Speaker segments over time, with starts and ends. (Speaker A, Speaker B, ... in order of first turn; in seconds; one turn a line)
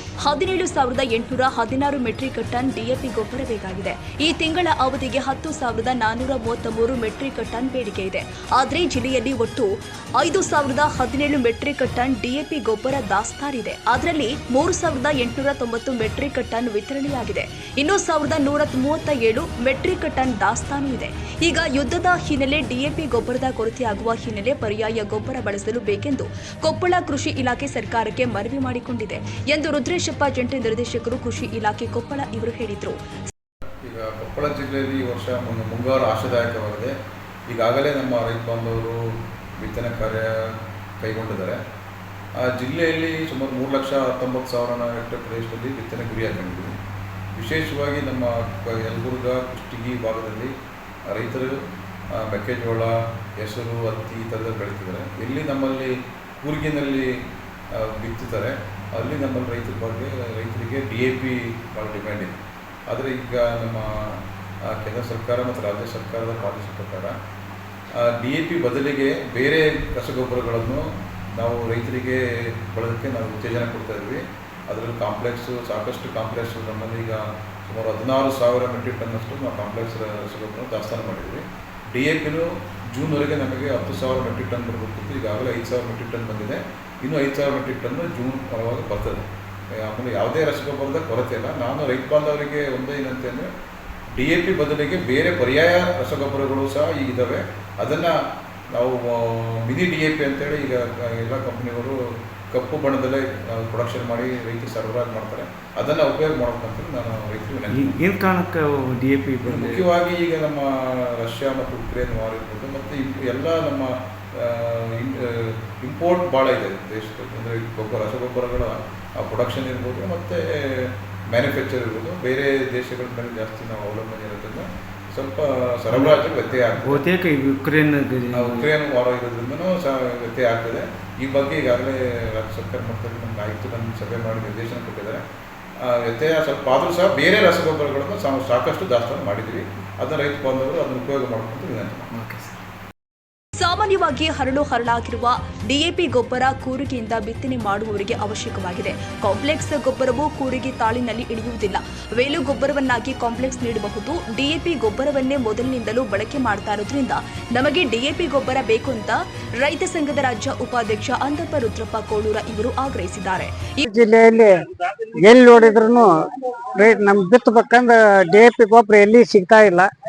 Speaker A: 0.2-33.0
Speaker B: 33.8-36.9
Speaker B: 37.5-39.0
Speaker B: 39.6-41.6
Speaker B: 42.4-46.8
Speaker B: 47.4-50.5
Speaker B: 51.1-51.5
Speaker B: 52.2-57.2
Speaker B: 57.8-62.4
Speaker B: 62.9-67.2
Speaker B: 68.0-89.3
Speaker B: 89.8-93.5
Speaker B: 94.2-98.2
Speaker B: 98.7-102.0
Speaker B: 102.5-108.0
Speaker C: 107.7-109.9
Speaker B: 109.4-127.1
Speaker C: 125.9-126.2
Speaker C: 126.8-128.7
Speaker B: 128.3-135.2
Speaker B: 135.8-142.1
Speaker C: 142.1-142.5
Speaker A: 143.6-163.8
Speaker D: 163.8-164.5
Speaker D: 165.2-166.1
Speaker D: 166.8-169.9